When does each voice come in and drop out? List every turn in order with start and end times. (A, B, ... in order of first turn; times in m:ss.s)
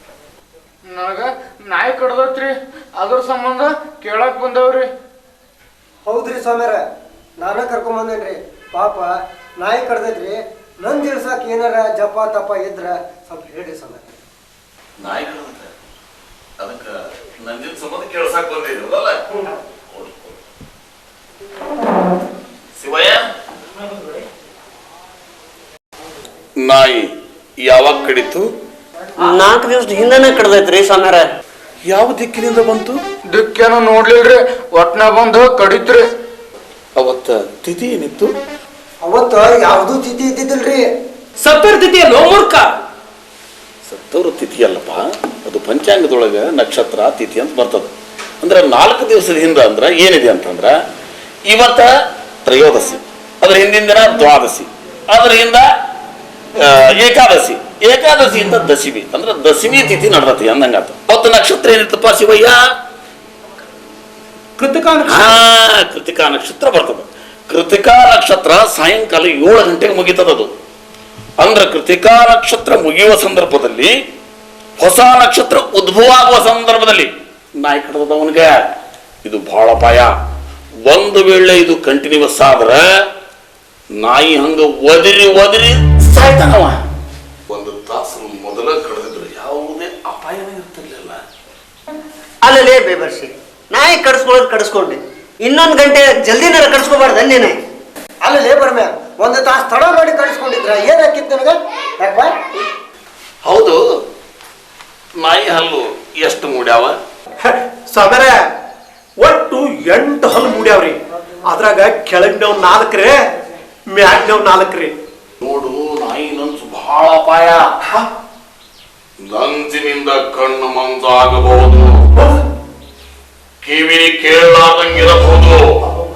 0:00.9-0:04.9 A
0:06.0-0:06.8 B
0:07.4-0:14.2 B
0:15.0-0:15.7 C
0:16.6-0:19.2 C
0:19.9-0:20.4 C
0:22.8-0:23.3 C
0:26.6-0:27.1 C
0:27.6-0:28.5 C
0:29.2-0:31.3 D
0:31.8-0:33.0 C
0:33.3-0:36.0 A
0:37.0-0:38.3 C
0:39.0-0:40.9 B
0:41.4-0:42.7 E
0:43.8-0:50.8 C
0:51.5-0:51.9 C
0:52.4-0:55.6 C
0:56.6-1:02.6 C
1:04.6-1:05.3 E
1:05.0-1:10.5 C
1:11.4-1:13.9 C
1:14.8-1:18.6 C
1:19.2-1:20.1 C
1:20.9-1:22.8 C
1:24.0-1:26.8 C
1:27.5-1:31.2 C
1:32.4-1:37.6 D
1:38.2-1:42.4 B
1:43.4-1:43.8 C
1:45.2-1:47.0 C
1:47.4-1:48.4 F
1:49.2-1:51.0 F
1:51.5-1:53.2 F
1:53.9-1:54.9 F
1:55.4-1:57.7 C
1:59.2-2:02.3 C
2:03.6-2:05.6 C